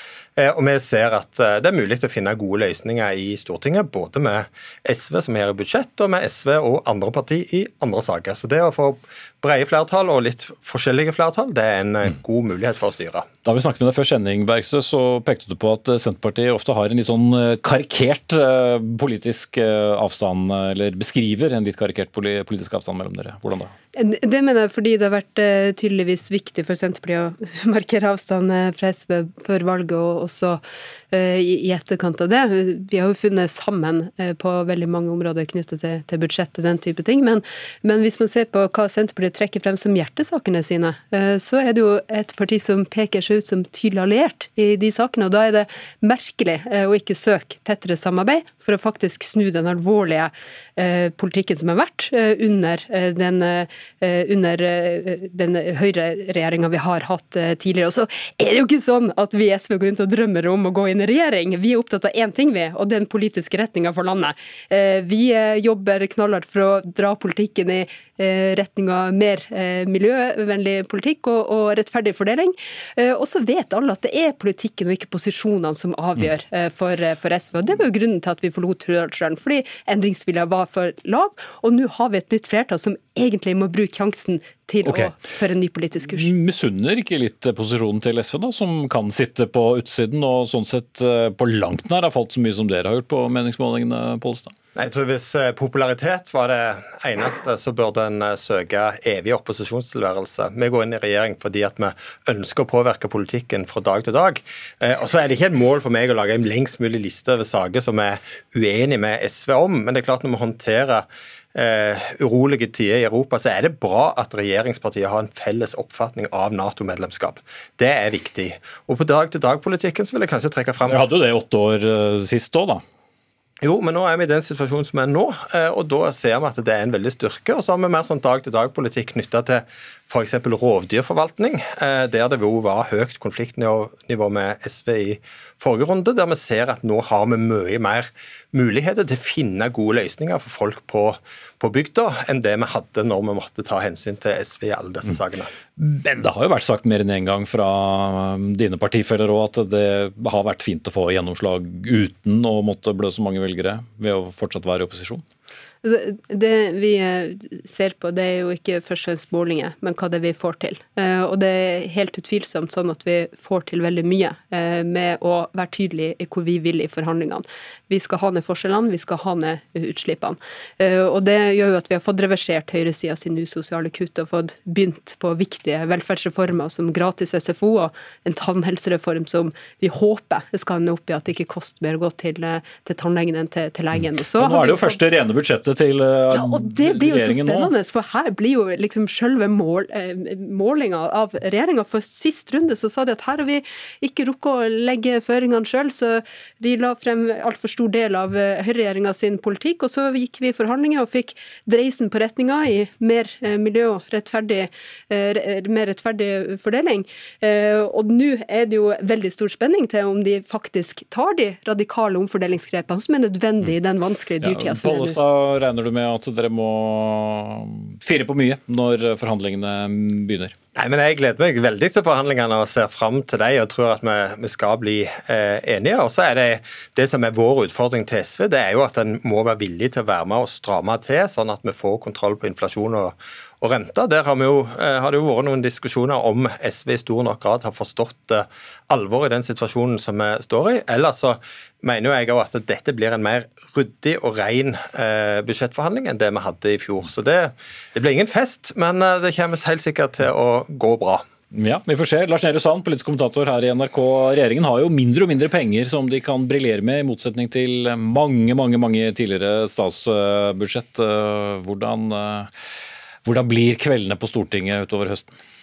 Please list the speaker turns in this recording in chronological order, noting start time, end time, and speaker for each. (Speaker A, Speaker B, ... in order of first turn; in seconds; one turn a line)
Speaker A: 0.4-13.2
Speaker B: 13.4-23.7
Speaker C: 23.9-86.3
Speaker B: 84.8-85.1
Speaker B: 86.1-94.5
Speaker A: 94.8-121.0
Speaker B: 120.9-122.8
Speaker A: 123.6-145.5
Speaker B: 145.8-155.2
Speaker C: 155.8-185.0
Speaker B: 184.4-187.7
Speaker C: 186.3-215.2
Speaker B: 214.4-220.5
Speaker A: 220.8-251.2
Speaker B: 251.5-262.5
Speaker B: 263.2-265.3